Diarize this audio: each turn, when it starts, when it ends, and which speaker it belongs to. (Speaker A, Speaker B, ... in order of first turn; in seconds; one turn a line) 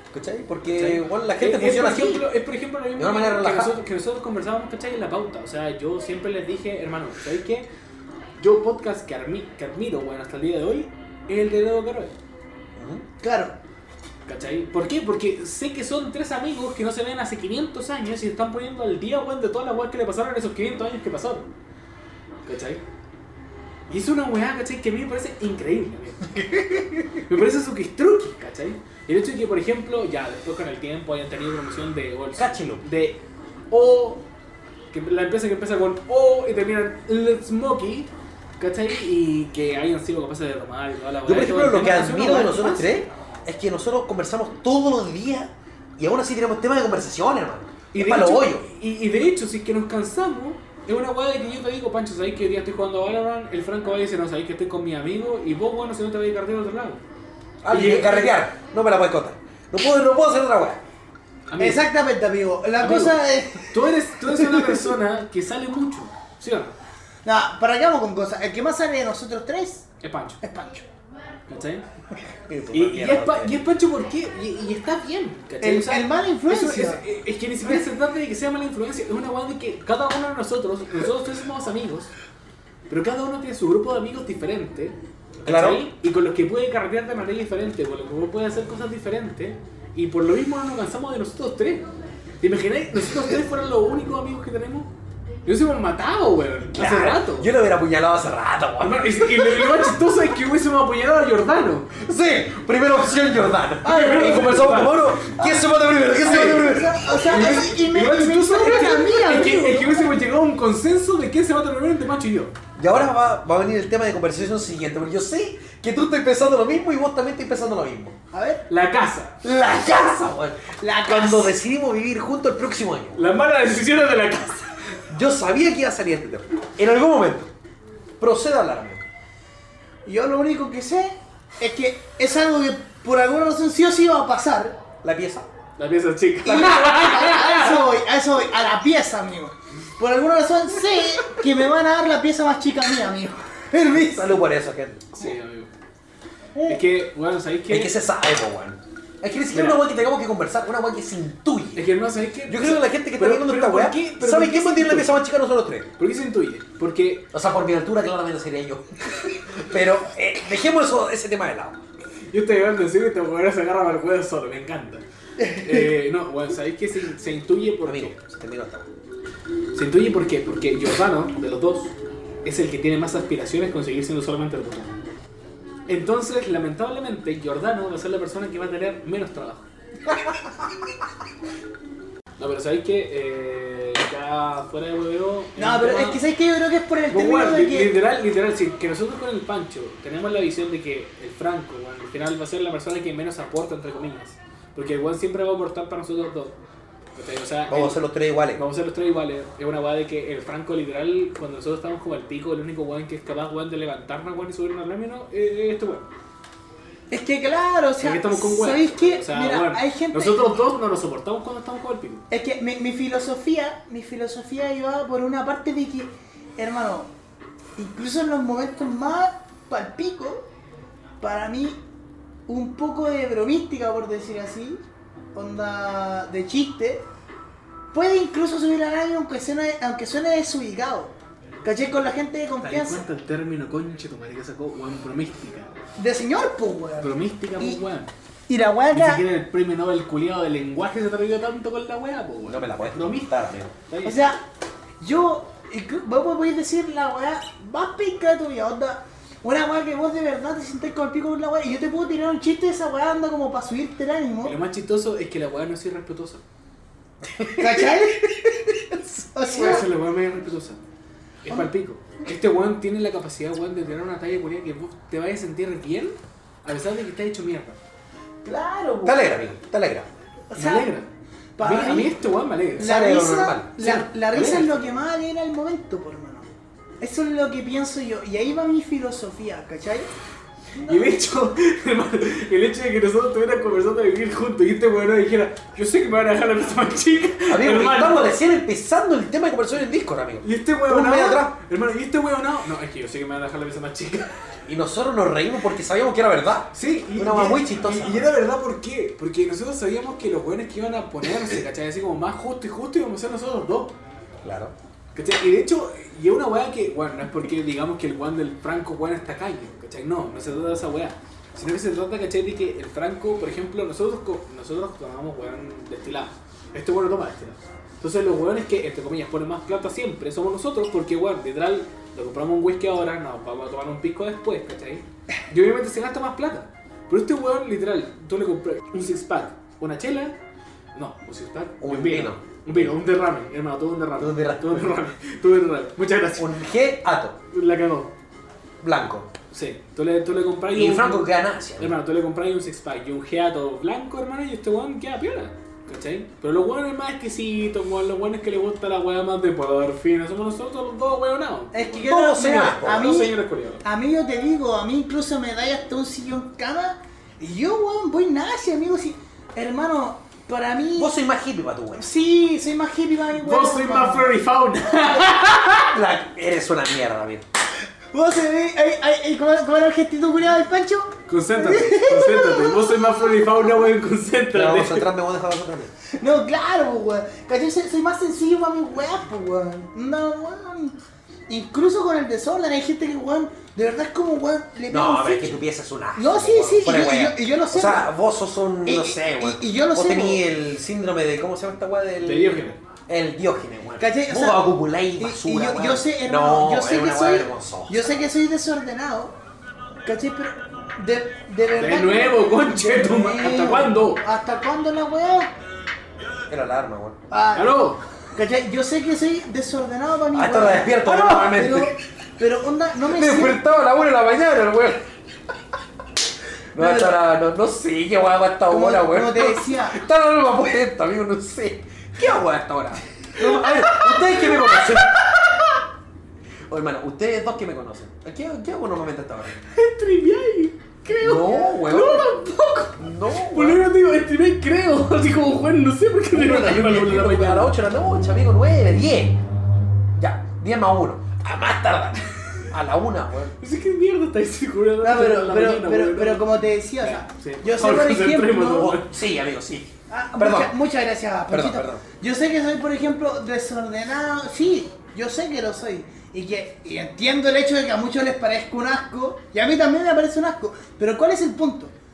Speaker A: 0.1-2.3
Speaker B: 0.6-7.7
Speaker A: 3.0-3.8
Speaker B: 8.4-12.2
Speaker A: 12.8-13.1
Speaker C: 13.2-13.6
Speaker B: 14.3-21.5
Speaker B: 22.4-22.8
Speaker B: 23.9-34.2
Speaker A: 32.4-32.8
Speaker B: 34.9-42.9
Speaker A: 41.2-48.7
Speaker B: 47.9-57.0
Speaker A: 57.6-60.8
Speaker B: 57.7-58.4
Speaker B: 61.5-61.9
Speaker C: 61.6-64.9
Speaker B: 62.8-63.2
Speaker B: 63.7-66.8
Speaker C: 67.2-69.9
Speaker B: 70.0-70.4
Speaker C: 70.4-70.9
Speaker B: 71.5-71.8
Speaker A: 72.5-73.5
Speaker B: 72.7-82.1
Speaker C: 75.6-77.0
Speaker B: 82.9-91.9
Speaker A: 85.5-85.8
Speaker B: 92.4-94.9
Speaker B: 95.5-97.5
Speaker A: 96.7-100.0
Speaker B: 98.8-101.9
Speaker A: 101.9-107.2
Speaker B: 103.8-105.2
Speaker C: 103.9-104.7
Speaker C: 106.2-110.0
Speaker B: 107.2-112.5
Speaker A: 112.8-118.2
Speaker C: 118.3-118.7
Speaker B: 118.7-119.4
Speaker A: 119.4-123.2
Speaker C: 120.8-121.6
Speaker B: 123.2-125.0
Speaker A: 125.1-127.5
Speaker A: 128.2-129.1
Speaker C: 130.1-134.8
Speaker A: 135.0-135.5
Speaker B: 135.8-137.9
Speaker C: 136.4-144.4
Speaker A: 143.9-145.1
Speaker B: 145.1-145.7
Speaker B: 146.7-147.9
Speaker A: 147.7-151.9
Speaker B: 149.5-149.8
Speaker B: 151.8-155.2
Speaker A: 152.5-155.9
Speaker B: 156.0-157.3
Speaker A: 157.3-161.8
Speaker B: 162.3-168.2
Speaker C: 165.4-165.8
Speaker A: 167.8-168.9
Speaker B: 169.7-174.9
Speaker B: 175.9-179.7
Speaker B: 182.4-186.2
Speaker C: 185.6-188.0
Speaker B: 187.1-196.6
Speaker B: 197.2-198.0
Speaker A: 197.7-198.6
Speaker B: 198.6-206.1
Speaker C: 207.1-210.6
Speaker B: 208.0-212.2
Speaker C: 212.3-217.1
Speaker C: 217.8-220.4
Speaker C: 221.2-221.8
Speaker C: 222.5-224.8
Speaker C: 225.3-227.1
Speaker C: 227.9-233.1
Speaker B: 232.6-235.8
Speaker C: 236.0-237.8
Speaker B: 237.0-238.1
Speaker C: 238.5-239.2
Speaker B: 238.9-244.2
Speaker A: 242.5-243.7
Speaker C: 244.1-244.4
Speaker C: 245.0-254.6
Speaker B: 254.4-256.4
Speaker A: 257.4-257.8
Speaker C: 257.5-258.4
Speaker C: 259.2-259.9
Speaker B: 259.5-260.8
Speaker A: 259.6-259.8
Speaker B: 261.4-267.8
Speaker C: 268.4-269.2
Speaker A: 269.0-270.1
Speaker C: 270.5-270.9
Speaker B: 270.6-271.1
Speaker C: 271.6-272.2
Speaker B: 271.6-272.9
Speaker C: 272.8-276.5
Speaker A: 272.8-273.8
Speaker B: 273.8-274.9
Speaker C: 277.0-280.1
Speaker C: 280.7-281.2
Speaker B: 280.9-288.4
Speaker A: 287.5-291.6
Speaker B: 290.4-294.3
Speaker A: 294.7-298.3
Speaker B: 296.7-303.9
Speaker A: 304.4-304.7
Speaker B: 305.1-330.4
Speaker B: 330.9-336.6
Speaker A: 331.8-332.9
Speaker A: 334.2-335.0
Speaker A: 336.4-337.4
Speaker B: 337.5-338.1
Speaker A: 338.8-339.3
Speaker B: 339.5-352.1
Speaker A: 340.7-341.9
Speaker C: 351.7-361.1
Speaker A: 352.1-353.1
Speaker B: 352.8-353.8
Speaker A: 360.9-362.1
Speaker C: 361.9-364.4
Speaker B: 363.4-365.9
Speaker A: 365.9-367.4
Speaker C: 368.1-373.8
Speaker B: 371.3-375.1
Speaker A: 374.5-375.9
Speaker C: 376.2-381.0
Speaker C: 381.5-385.6
Speaker A: 384.9-398.1
Speaker C: 386.1-388.1
Speaker C: 388.9-390.4
Speaker B: 392.2-392.8
Speaker C: 394.0-399.3
Speaker C: 400.1-405.5
Speaker B: 401.8-404.2
Speaker A: 406.5-407.2
Speaker C: 407.3-413.6
Speaker B: 407.6-408.0
Speaker A: 410.3-411.9
Speaker A: 413.1-415.1
Speaker A: 416.7-425.2
Speaker C: 416.8-417.1
Speaker C: 418.7-420.0
Speaker B: 423.9-425.8
Speaker A: 426.7-429.6
Speaker B: 429.6-437.7
Speaker A: 431.1-432.3
Speaker A: 433.0-433.9
Speaker A: 436.3-439.4
Speaker A: 440.1-443.6
Speaker B: 443.6-449.1
Speaker C: 445.0-449.0
Speaker A: 448.8-450.7
Speaker C: 450.1-461.9
Speaker A: 451.5-452.0